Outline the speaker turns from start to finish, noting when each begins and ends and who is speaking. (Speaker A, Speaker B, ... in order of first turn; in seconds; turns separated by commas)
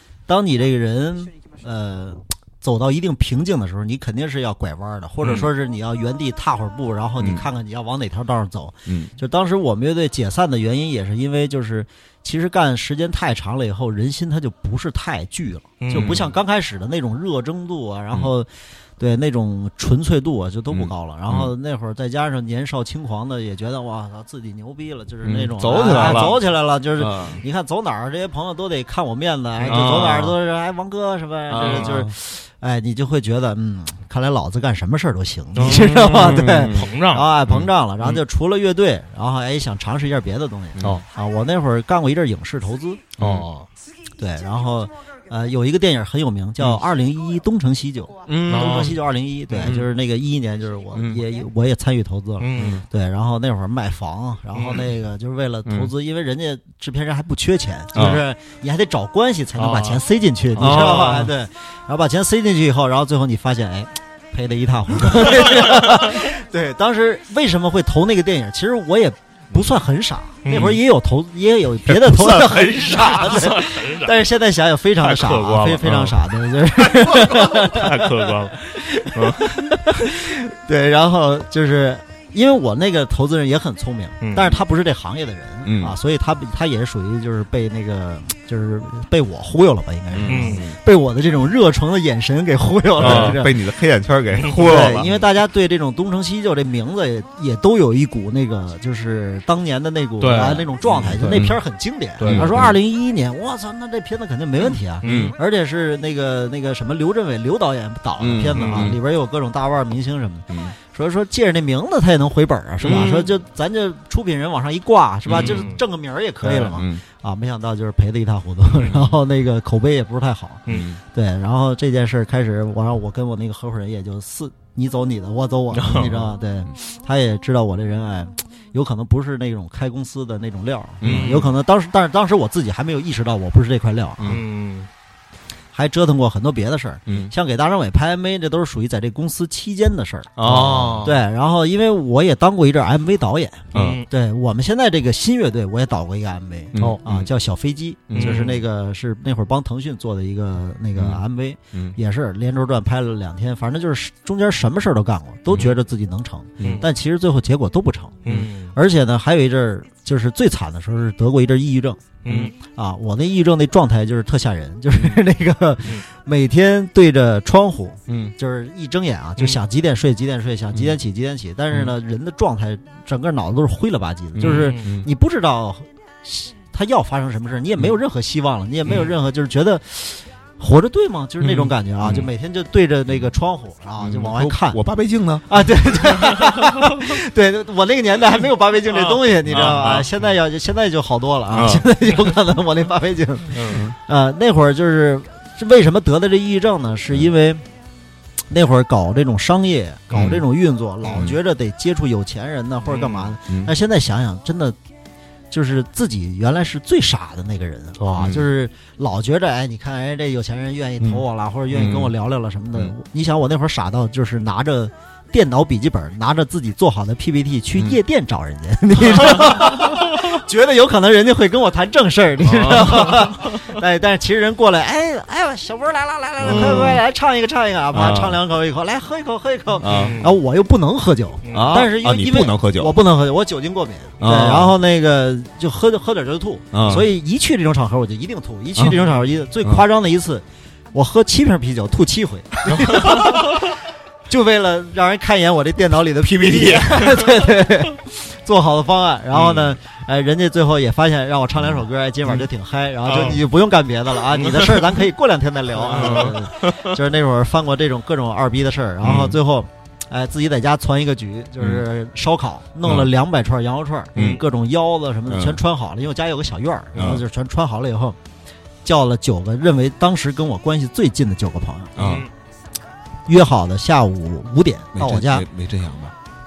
Speaker A: 0.3-43.1, Speaker B: 5.2-5.5, Speaker C: 7.2-7.5, Speaker C: 8.8-9.1, Speaker B: 15.8-16.2, Speaker C: 15.9-16.3, Speaker C: 20.7-21.5, Speaker C: 25.2-26.4, Speaker B: 25.8-26.3, Speaker C: 27.0-27.4, Speaker B: 29.6-30.3, Speaker C: 29.6-30.3, Speaker C: 31.5-32.1, Speaker B: 31.6-31.9, Speaker B: 35.5-37.3, Speaker C: 35.6-36.9, Speaker C: 40.8-41.0, Speaker B: 40.8-41.0, Speaker C: 43.2-43.5, Speaker B: 43.2-43.7, Speaker A: 44.2-93.5, Speaker C: 48.2-49.0, Speaker B: 48.5-49.0, Speaker B: 49.5-49.9, Speaker C: 50.9-51.2, Speaker B: 52.4-52.8, Speaker C: 52.5-52.8, Speaker B: 54.5-54.9, Speaker C: 55.6-55.9, Speaker C: 57.9-58.2, Speaker B: 59.6-60.0, Speaker B: 60.6-61.2, Speaker C: 60.6-61.3, Speaker B: 70.4-70.8, Speaker C: 71.9-73.4, Speaker B: 73.0-74.2, Speaker B: 75.0-76.2, Speaker B: 77.7-80.0, Speaker B: 84.2-84.6, Speaker C: 85.6-86.0, Speaker C: 90.1-90.8, Speaker B: 90.2-90.6, Speaker C: 93.0-95.1, Speaker B: 93.0-93.4, Speaker B: 94.4-95.1, Speaker A: 94.5-120.6, Speaker B: 100.2-101.5, Speaker C: 100.9-101.5, Speaker B: 102.2-102.6, Speaker C: 102.2-102.7, Speaker B: 105.0-105.3, Speaker C: 105.0-105.3, Speaker C: 108.2-109.0, Speaker B: 108.5-109.0, Speaker C: 112.8-113.3, Speaker B: 115.3-115.8, Speaker C: 115.3-115.6, Speaker C: 116.4-117.0, Speaker C: 118.8-119.1, Speaker C: 120.7-121.0, Speaker A: 121.1-134.2, Speaker B: 125.7-126.3, Speaker C: 131.0-131.5, Speaker B: 131.0-131.5, Speaker C: 134.2-134.4, Speaker B: 134.2-134.9, Speaker A: 135.7-140.3, Speaker C: 137.1-137.3, Speaker B: 140.4-141.1, Speaker C: 140.4-141.1, Speaker A: 141.0-158.2, Speaker C: 143.7-144.0, Speaker B: 143.7-144.0, Speaker C: 146.7-147.3, Speaker C: 148.1-148.5, Speaker B: 148.1-148.6, Speaker C: 151.0-151.2, Speaker B: 156.6-156.8, Speaker B: 158.2-158.7, Speaker A: 158.7-162.0, Speaker B: 162.2-162.5, Speaker C: 162.3-162.5, Speaker A: 162.6-184.8, Speaker C: 168.1-168.3, Speaker C: 174.3-175.1, Speaker B: 174.4-174.8, Speaker C: 182.0-182.3, Speaker C: 184.0-185.6, Speaker A: 185.5-197.6, Speaker B: 188.9-190.1, Speaker C: 189.5-190.0, Speaker C: 191.5-191.8, Speaker B: 193.5-193.8, Speaker C: 193.7-194.0, Speaker A: 198.5-204.8, Speaker C: 200.1-200.4, Speaker C: 201.1-201.4, Speaker B: 202.9-203.3, Speaker A: 205.5-243.6, Speaker C: 208.2-208.4, Speaker C: 211.0-212.1, Speaker B: 222.5-223.4, Speaker C: 226.4-227.0, Speaker B: 226.5-226.8, Speaker C: 227.9-228.3, Speaker C: 229.8-230.2, Speaker B: 229.8-230.3, Speaker B: 231.4-231.7, Speaker C: 231.5-232.9, Speaker C: 234.2-234.7, Speaker C: 236.7-237.1, Speaker A: 244.3-268.2, Speaker C: 246.5-247.0, Speaker B: 249.3-249.7, Speaker B: 254.3-254.9, Speaker B: 255.8-256.9, Speaker C: 259.0-259.4, Speaker C: 262.8-263.1, Speaker C: 264.1-264.4, Speaker C: 265.3-265.6, Speaker C: 266.9-267.2, Speaker A: 268.8-271.9, Speaker C: 271.9-272.3, Speaker B: 271.9-272.3, Speaker A: 273.2-275.4, Speaker C: 274.9-276.1